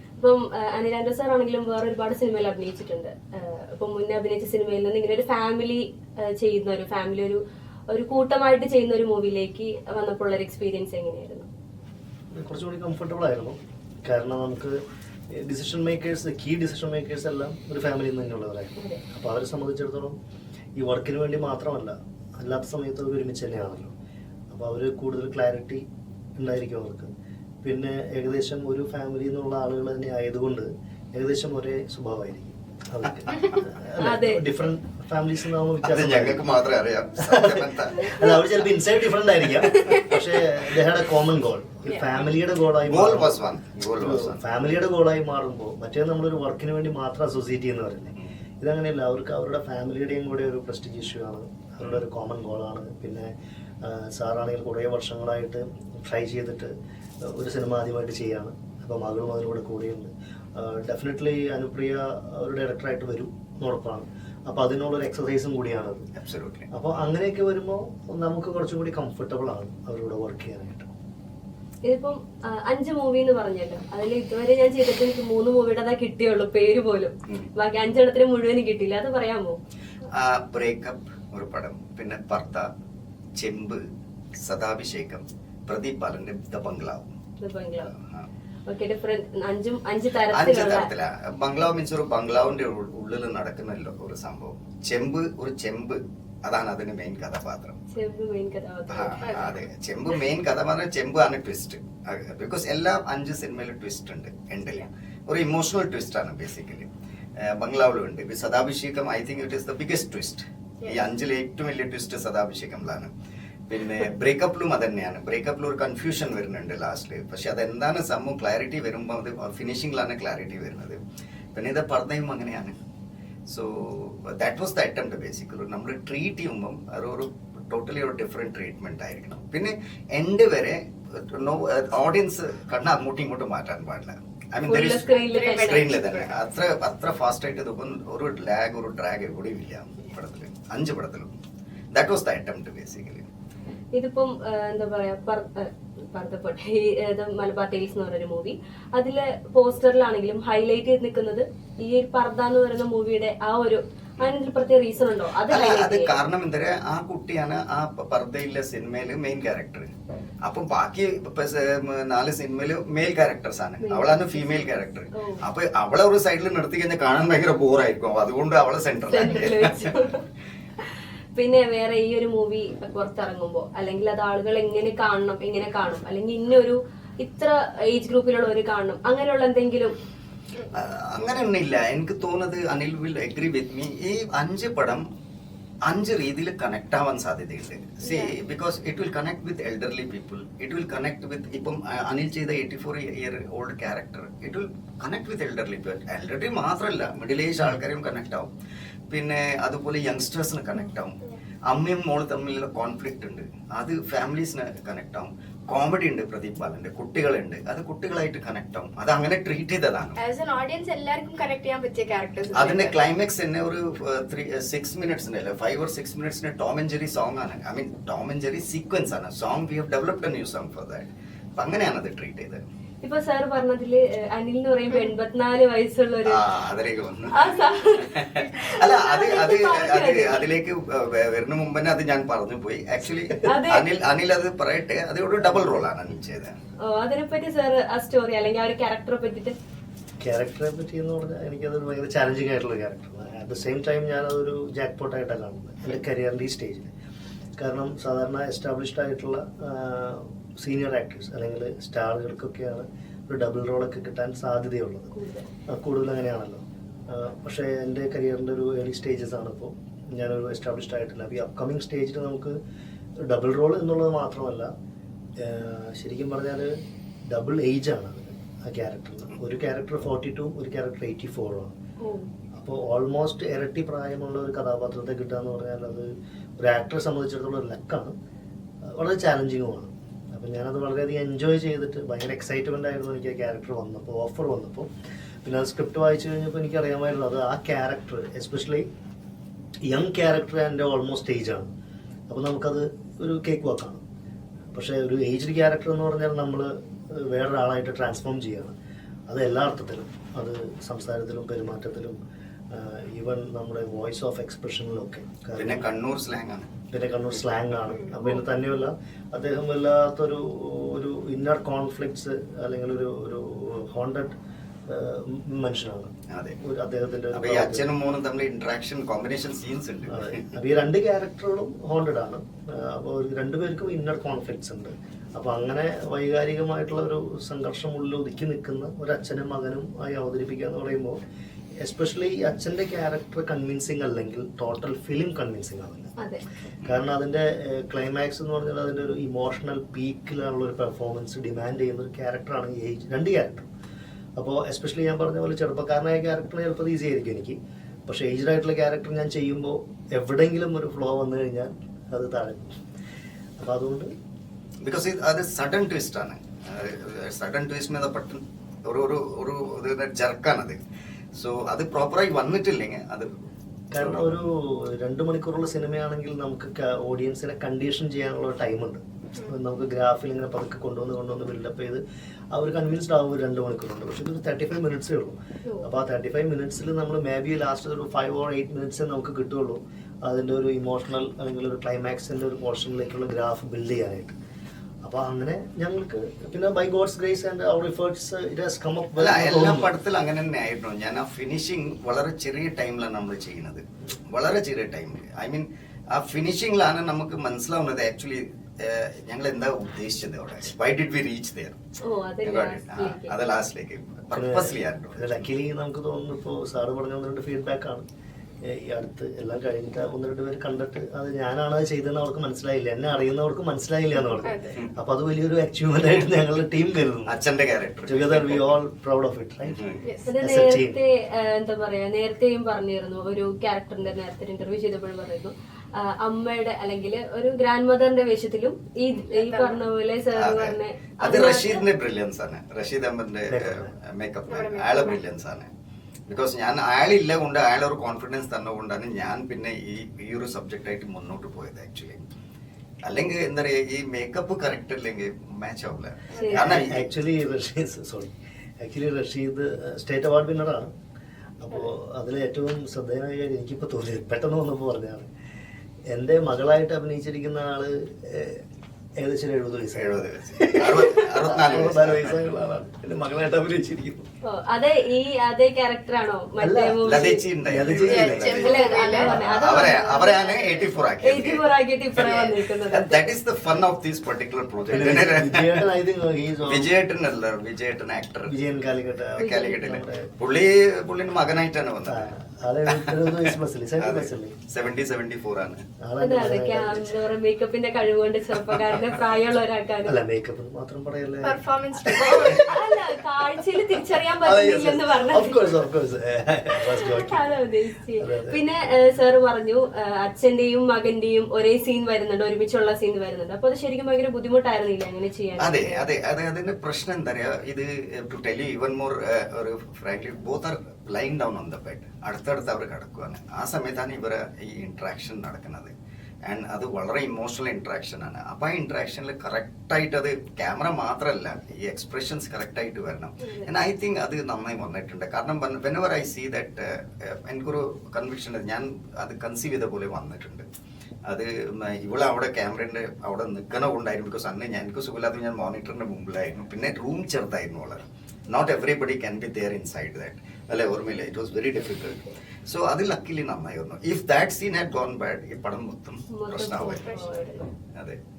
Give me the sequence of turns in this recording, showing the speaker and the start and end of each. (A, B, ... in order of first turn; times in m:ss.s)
0:00.2-0:11.5 A
0:12.3-0:14.8 B
0:15.3-0:20.2 B
0:20.8-0:23.9 B
0:24.5-0:25.8 B
0:26.4-0:27.1 B
0:27.6-0:36.4 B
0:34.0-0:34.5 A
0:35.8-0:38.1 C
0:37.2-0:53.3 B
0:39.8-0:40.2 D
0:41.9-0:42.2 D
0:42.2-0:44.4 C
0:53.8-0:56.7 B
0:57.3-1:06.1 B
1:06.2-1:06.7 C
1:06.7-1:10.9 B
1:11.8-1:19.6 A
1:20.2-1:22.7 C
1:23.4-1:23.8 C
1:24.4-1:27.1 C
1:27.4-1:27.9 A
1:27.9-1:28.3 C
1:28.7-1:30.9 A
1:30.3-1:37.8 C
1:37.9-1:39.2 A
1:38.9-1:46.9 C
1:39.2-1:39.6 D
1:47.4-1:53.1 C
1:53.7-2:01.0 C
2:01.5-2:02.8 C
2:03.5-2:21.3 C
2:14.6-2:15.9 A
2:15.1-2:16.5 D
2:21.9-2:23.2 C
2:23.9-2:36.2 A
2:35.5-2:39.9 C
2:40.4-2:50.0 C
2:43.8-2:45.4 A
2:49.1-2:50.2 A
2:51.4-2:59.9 A
3:00.7-3:05.0 C
3:05.9-3:18.5 C
3:08.0-3:08.3 D
3:19.1-3:30.2 C
3:30.2-3:33.0 D
3:32.5-3:42.6 C
3:43.0-3:46.4 A
3:46.3-3:47.5 C
3:47.3-3:50.4 A
3:48.1-3:56.5 C
3:53.4-3:53.8 A
3:56.8-3:59.6 A
4:00.2-4:06.9 B
4:07.6-4:15.1 B
4:15.1-4:15.5 A
4:15.7-4:22.5 B
4:23.2-4:24.7 B
4:25.4-4:26.7 B
4:27.3-4:31.7 B
4:32.0-4:32.3 A
4:32.6-4:38.1 B
4:39.0-4:44.9 B
4:45.4-4:48.9 B
4:49.9-4:51.7 B
4:52.3-4:54.0 B
4:54.7-4:58.7 B
4:59.3-5:02.2 B
5:02.7-5:05.9 B
5:05.5-5:06.7 C
5:06.9-5:14.4 B
5:14.9-5:17.9 B
5:16.3-5:16.6 C
5:17.3-5:20.5 C
5:20.1-5:31.2 B
5:31.8-5:36.1 B
5:36.2-5:36.4 A
5:36.8-5:43.7 B
5:44.4-5:52.8 B
5:53.6-5:54.1 B
5:54.8-6:00.8 C
6:01.4-6:03.3 C
6:03.9-6:12.0 B
6:03.9-6:04.5 C
6:12.5-6:24.4 B
6:25.0-6:29.9 B
6:29.2-6:41.8 C
6:42.0-6:43.3 A
6:42.4-6:45.5 C
6:44.3-6:48.0 B
6:48.6-6:57.4 B
6:54.4-6:54.8 D
6:57.2-6:58.8 C
6:58.0-6:59.8 B
6:59.6-7:00.0 C
7:00.0-7:00.3 D
7:00.2-7:11.8 A
7:00.4-7:01.0 B
7:09.3-7:09.8 D
7:10.3-7:15.7 C
7:13.5-7:13.9 B
7:14.5-7:15.2 D
7:16.3-7:22.2 C
7:23.0-7:27.1 C
7:26.3-7:26.6 D
7:26.3-7:26.8 A
7:26.5-7:30.9 B
7:31.6-7:35.3 B
7:36.1-7:38.6 B
7:39.2-7:44.2 B
7:39.9-7:42.4 C
7:44.4-7:47.4 A
7:46.6-7:49.6 B
7:47.0-7:51.6 C
7:48.0-7:49.4 D
7:48.4-7:53.3 A
7:52.2-7:55.8 C
7:54.9-7:56.9 B
7:56.6-7:58.5 C
7:58.4-8:00.3 B
7:59.4-8:02.3 C
7:59.4-7:59.8 A
8:02.0-8:04.5 B
8:02.9-8:05.8 C
8:06.0-8:07.1 B
8:06.2-8:10.2 A
8:10.0-8:12.5 B
8:11.4-8:12.8 D
8:12.2-8:15.8 A
8:14.4-8:17.6 B
8:17.0-8:26.0 A
8:18.2-8:18.6 B
8:25.6-8:35.9 C
8:36.4-8:50.6 C
8:43.4-8:43.7 A
8:51.2-9:07.0 C
9:06.3-9:07.7 A
9:06.9-9:07.6 D